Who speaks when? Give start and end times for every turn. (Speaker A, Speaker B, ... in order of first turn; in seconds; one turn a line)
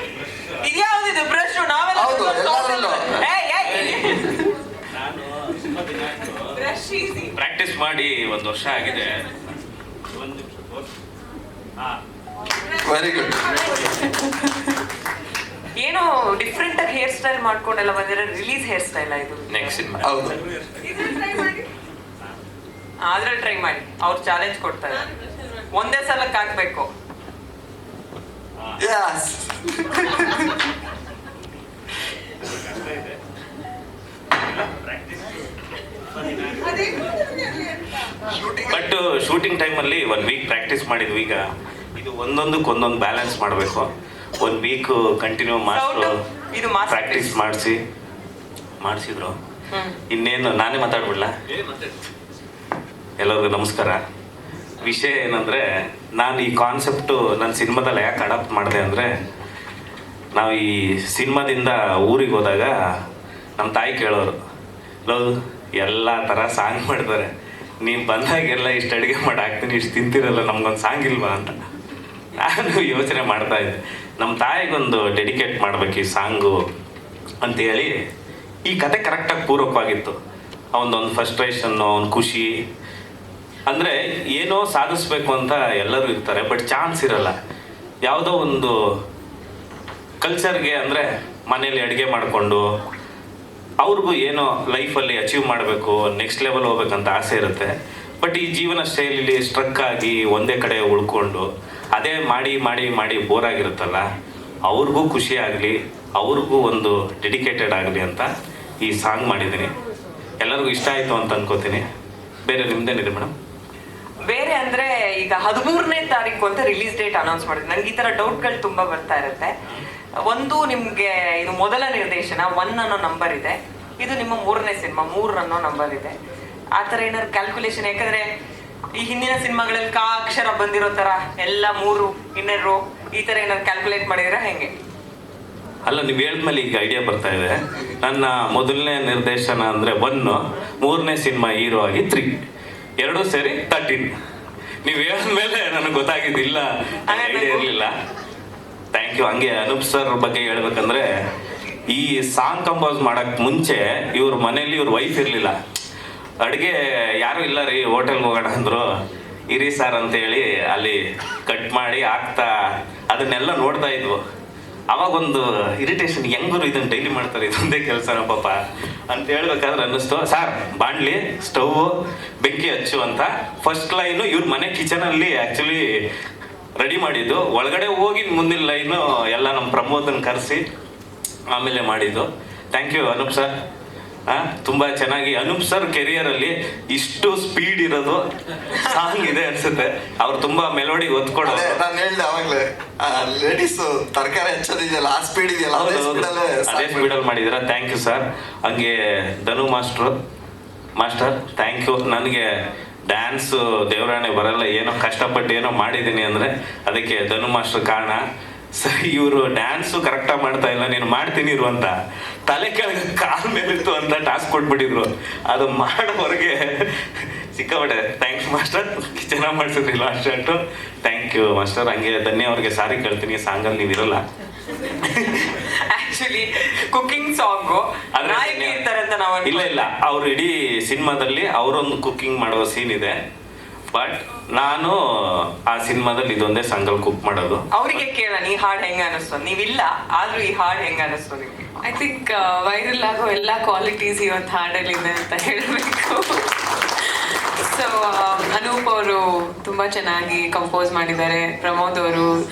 Speaker A: 0.6-4.5
Speaker B: 1.9-3.2
Speaker C: 5.7-6.2
Speaker A: 6.3-7.3
Speaker C: 7.4-9.3
Speaker C: 10.2-10.6
Speaker B: 12.8-13.6
Speaker A: 15.8-19.9
Speaker C: 19.5-20.0
Speaker B: 20.0-20.4
Speaker A: 20.8-21.6
Speaker A: 23.0-25.1
Speaker A: 25.6-26.9
Speaker B: 28.8-30.5
Speaker C: 32.7-33.0
Speaker C: 34.7-35.2
Speaker C: 38.7-46.1
Speaker A: 45.7-47.4
Speaker C: 46.9-47.8
Speaker C: 48.8-49.4
Speaker A: 49.7-50.0
Speaker C: 50.1-51.3
Speaker C: 53.2-54.0
Speaker C: 54.8-55.6
Speaker C: 56.1-59.1
Speaker C: 60.4-62.8
Speaker C: 63.6-64.4
Speaker C: 65.0-67.3
Speaker C: 67.8-71.7
Speaker C: 72.3-76.6
Speaker C: 77.4-77.9
Speaker C: 78.7-80.2
Speaker C: 80.7-82.5
Speaker C: 83.7-87.4
Speaker C: 88.0-88.8
Speaker C: 90.2-92.7
Speaker C: 93.8-104.1
Speaker C: 104.7-108.3
Speaker C: 108.8-109.7
Speaker C: 110.4-111.8
Speaker C: 112.5-113.3
Speaker A: 114.3-119.5
Speaker A: 120.2-126.2
Speaker A: 126.8-128.3
Speaker A: 129.0-134.7
Speaker C: 135.9-142.4
Speaker C: 143.0-144.1
Speaker C: 144.8-147.9
Speaker A: 147.1-147.7
Speaker C: 148.9-151.1
Speaker C: 151.9-155.6
Speaker C: 156.4-158.9
Speaker C: 159.5-162.5
Speaker C: 163.1-164.2
Speaker C: 164.9-175.9
Speaker C: 176.8-180.6
Speaker C: 181.5-183.5
Speaker C: 184.3-188.2
Speaker C: 188.9-191.8
Speaker B: 191.4-197.2
Speaker C: 195.7-200.2
Speaker C: 201.0-202.5
Speaker C: 203.1-208.2
Speaker C: 208.8-211.9
Speaker C: 212.5-224.2
Speaker A: 225.2-229.9
Speaker C: 228.2-228.8
Speaker C: 229.4-233.2
Speaker C: 233.9-237.6
Speaker A: 237.7-241.7
Speaker D: 241.8-252.3